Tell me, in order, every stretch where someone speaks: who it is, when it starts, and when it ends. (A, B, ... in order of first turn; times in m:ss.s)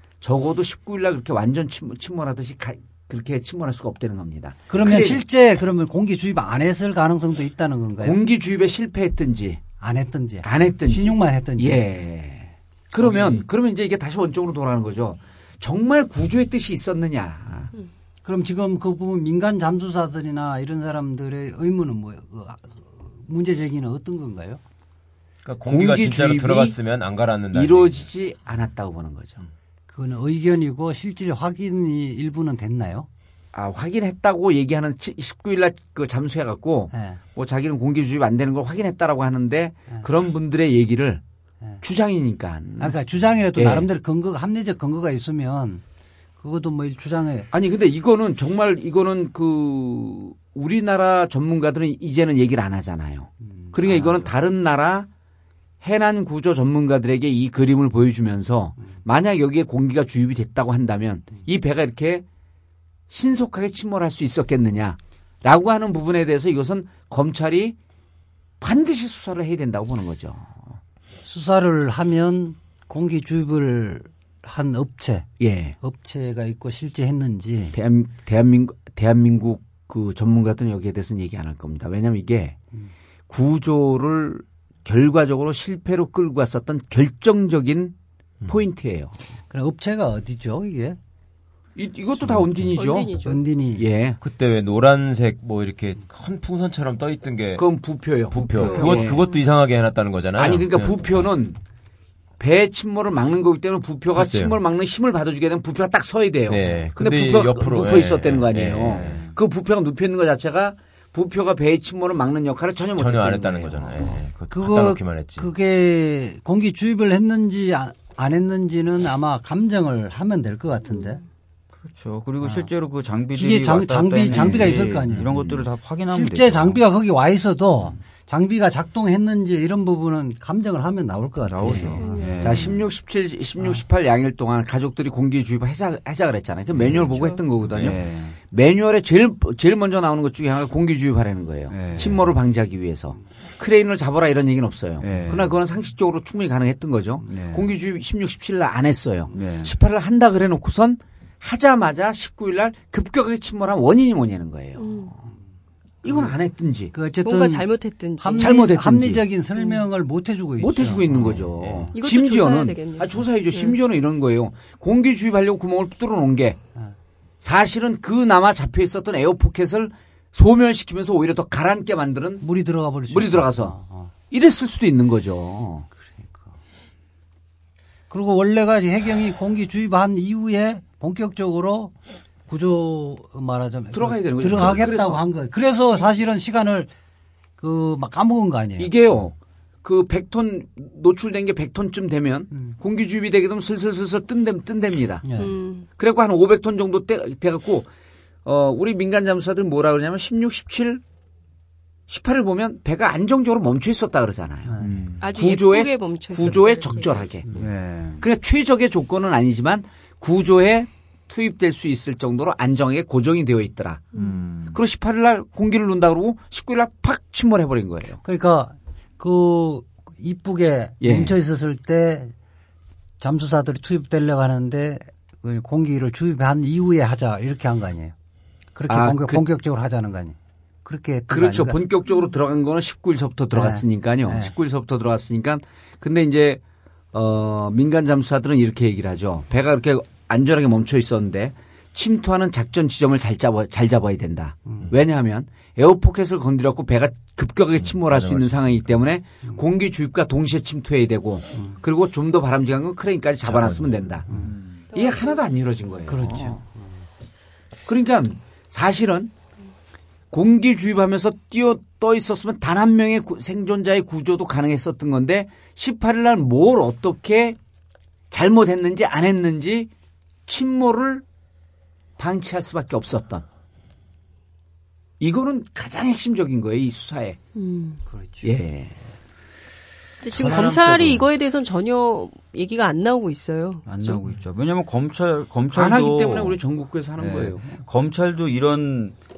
0:00.2-0:05.2 A
0:04.7-0:08.2 B
0:08.0-0:09.6 A
0:09.8-0:11.8 B
0:10.4-0:17.7 A
0:18.2-0:24.6 B
0:25.4-0:28.0 C
0:25.7-0:26.8 A
0:27.5-0:29.4 A
0:29.9-0:33.1 B
0:33.5-0:41.2 A
0:36.9-0:37.2 B
0:41.8-0:43.0 A
0:42.8-0:45.8 B
0:43.6-0:43.9 A
0:46.4-0:47.5 B
0:47.5-0:55.1 A
0:53.7-0:54.2 B
0:55.8-1:02.2 A
1:03.1-1:07.8 A
1:08.6-1:10.8 A
1:11.2-1:15.3 B
1:15.4-1:15.8 A
1:15.8-1:17.8 B
1:17.7-1:22.6 A
1:23.3-1:27.9 A
1:28.4-1:29.1 A
1:29.5-1:31.0 B
1:31.8-1:33.2 A
1:32.8-1:33.4 D
1:33.2-1:33.9 B
1:33.8-1:34.2 A
1:34.2-1:37.6 C
1:37.6-1:39.3 A
1:38.3-1:41.1 C
1:38.4-1:39.4 D
1:40.4-1:41.6 A
1:42.4-1:54.1 A
1:44.1-1:44.6 C
1:46.4-1:49.2 C
1:48.9-1:49.3 E
1:53.0-1:55.5 C
1:54.5-2:01.2 B
2:01.8-2:06.8 E
2:02.4-2:02.7 B
2:03.3-2:05.5 B
2:06.1-2:12.5 B
2:11.4-2:12.8 E
2:11.6-2:35.3 A
2:12.0-2:12.6 D
2:16.8-2:17.2 E
2:17.7-2:18.4 E
2:21.7-2:22.3 E
2:25.0-2:25.6 E
2:27.2-2:27.7 E
2:29.3-2:29.7 E
2:34.8-2:35.1 D
2:36.0-2:36.9 A
2:36.9-2:41.4 B
2:37.2-2:38.6 D
2:38.4-2:39.2 A
2:39.6-2:39.8 D
2:40.6-2:46.6 A
2:41.6-2:41.9 C
2:41.9-2:43.8 D
2:47.4-2:52.4 A
2:52.4-2:54.1 B
2:53.1-2:53.7 A
2:54.3-2:55.9 A
2:56.0-2:56.5 B
2:58.1-3:01.9 B
3:02.5-3:06.9 B
3:03.9-3:05.2 A
3:07.6-3:08.9 B
3:08.8-3:15.3 A
3:15.2-3:15.5 B
3:15.4-3:15.8 D
3:16.0-3:17.9 A
3:18.4-3:21.0 A
3:22.1-3:27.5 A
3:24.7-3:25.0 B
3:24.8-3:25.3 E
3:25.2-3:27.3 D
3:27.5-3:28.2 E
3:28.2-3:34.0 A
3:34.1-3:34.8 E
3:34.7-3:38.2 A
3:38.2-3:42.3 B
3:41.0-3:41.3 A
3:43.2-3:48.1 B
3:48.7-3:51.8 B
3:48.9-3:49.4 A
3:51.3-3:56.6 A
3:53.5-3:54.5 B
3:57.1-4:14.3 A
4:07.8-4:09.0 C
4:13.4-4:14.2 C
4:14.3-4:14.5 B
4:14.4-4:14.8 E
4:14.9-4:15.4 D
4:14.9-4:16.6 A
4:16.1-4:16.8 B
4:17.9-4:19.3 A
4:20.3-4:27.6 A
4:28.3-4:29.9 A
4:30.5-4:31.2 A
4:32.2-4:33.4 A
4:35.2-4:37.4 A
4:37.6-4:38.0 D
4:38.1-4:38.6 B
4:38.4-4:39.0 A
4:40.2-4:44.2 D
4:40.2-4:41.3 E
4:43.8-4:46.6 E
4:45.7-4:47.8 A
4:47.2-4:49.1 E